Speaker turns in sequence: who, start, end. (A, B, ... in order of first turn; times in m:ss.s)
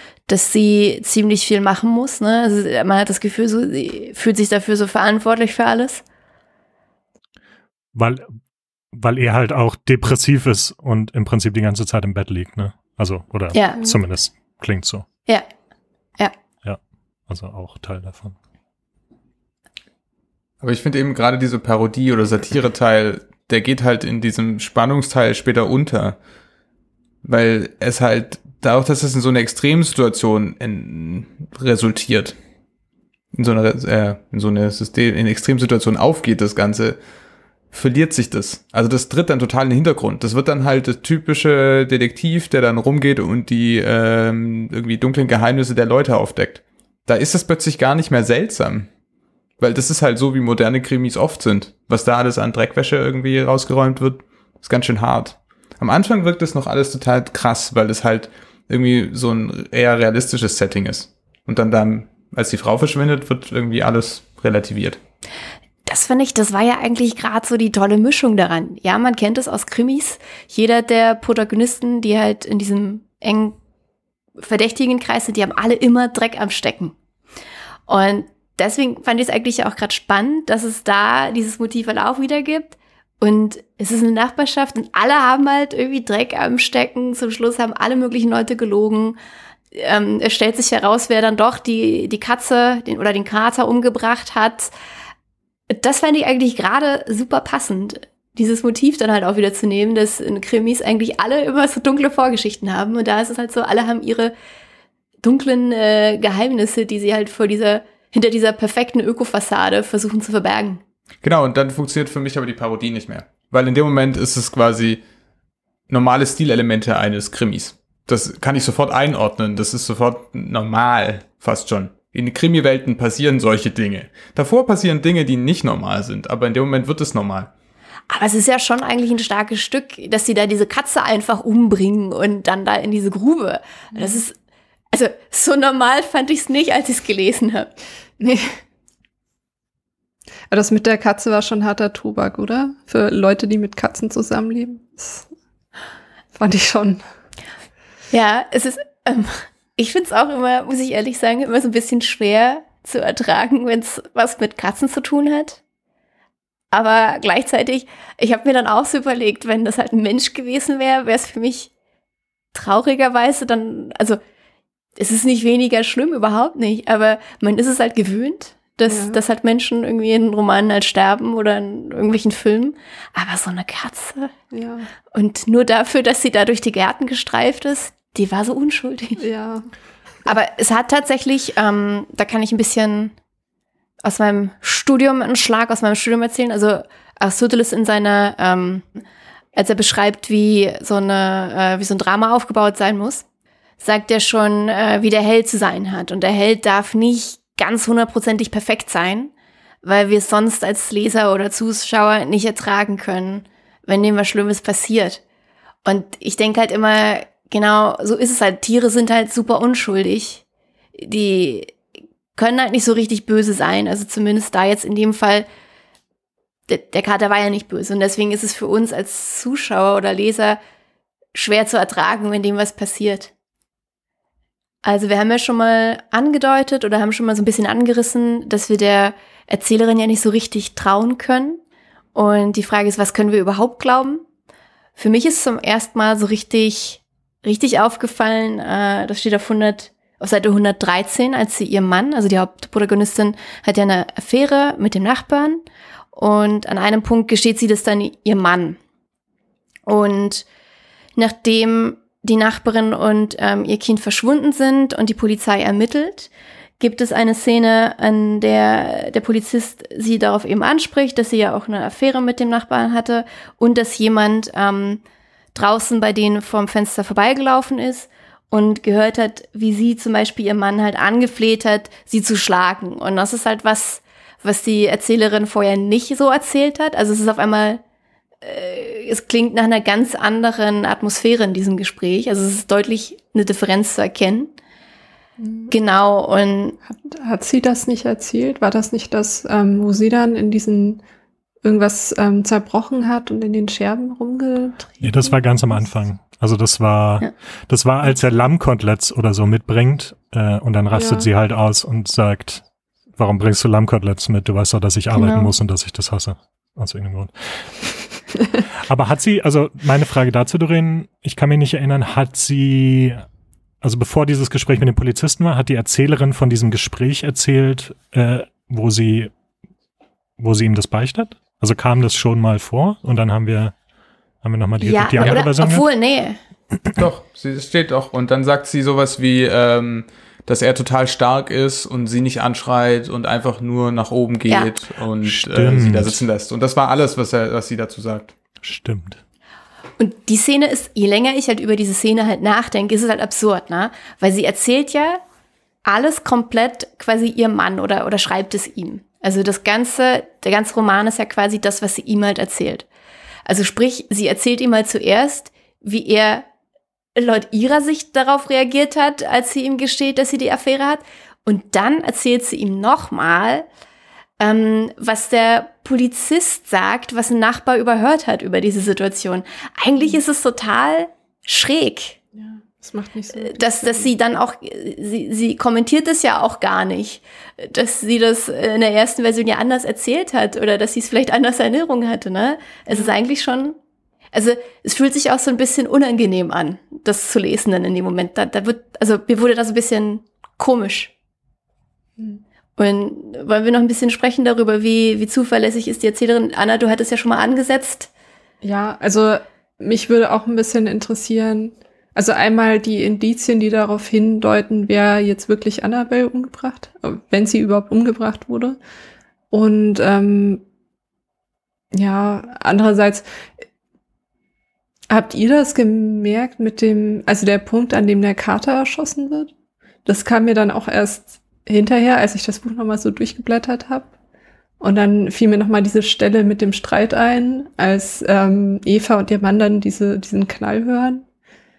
0:00.3-0:06.0 A
0:07.9-0:08.2 B
0:08.9-0:15.0 B
0:13.5-0:13.8 A
0:16.6-0:18.4 B
0:20.6-0:26.2 C
0:27.2-0:32.4 C
0:33.3-0:37.0 C
0:37.7-0:48.9 C
0:49.6-1:05.0 C
1:05.8-1:13.6 A
1:14.4-1:16.9 A
1:17.9-1:29.2 A
1:29.7-1:34.7 A
1:35.7-1:44.3 A
1:45.2-1:50.8 A
1:51.2-1:55.0 C
1:55.9-2:07.5 C
2:08.1-2:14.3 A
2:14.9-2:17.7 A
2:18.2-2:18.6 D
2:20.5-2:25.3 D
2:26.3-2:27.0 D
2:28.1-2:35.6 A
2:36.7-2:41.7 A
2:42.5-2:44.2 A
2:45.0-2:54.3 A
2:48.9-2:49.2 D
2:54.5-2:54.9 D
2:55.1-2:59.2 A
2:59.2-2:59.7 D
3:00.2-3:03.1 A
3:04.0-3:08.9 A
3:09.5-3:13.2 A
3:13.8-3:19.3 A
3:19.8-3:25.2 A
3:25.8-3:30.4 A
3:30.9-3:31.7 A
3:32.4-3:35.4 A
3:36.7-3:40.6 A
3:41.3-3:43.3 A
3:44.8-3:51.6 A
3:52.1-3:54.2 A
3:55.0-4:05.6 A
4:06.1-4:08.8 A
4:09.8-4:10.4 A
4:11.2-4:25.0 A
4:25.5-4:37.8 A
4:38.4-4:44.5 A
4:45.4-4:45.7 D
4:45.7-4:46.8 A
4:46.9-4:51.0 D
4:51.6-4:55.9 D
4:55.0-5:02.6 B
5:00.9-5:01.3 D
5:03.2-5:07.7 B
5:05.2-5:05.5 A
5:08.8-5:13.2 B
5:13.8-5:19.3 B
5:20.4-5:23.7 B
5:24.4-5:25.8 B
5:24.8-5:26.4 A
5:27.0-5:38.3 C
5:34.5-5:34.7 A
5:35.2-5:36.2 B
5:38.6-5:39.2 B
5:40.0-5:45.2 A
5:45.8-5:52.9 A
5:53.4-5:56.5 A
5:57.2-6:03.6 A
6:04.4-6:12.2 A
6:12.3-6:14.1 D
6:13.3-6:23.8 A
6:24.3-6:31.1 A
6:32.2-6:32.4 D
6:32.8-6:38.1 A
6:38.6-6:48.8 D
6:49.5-6:50.6 D
6:51.9-6:53.4 D
6:55.1-6:59.5 D
7:00.0-7:04.1 D
7:04.8-7:11.2 D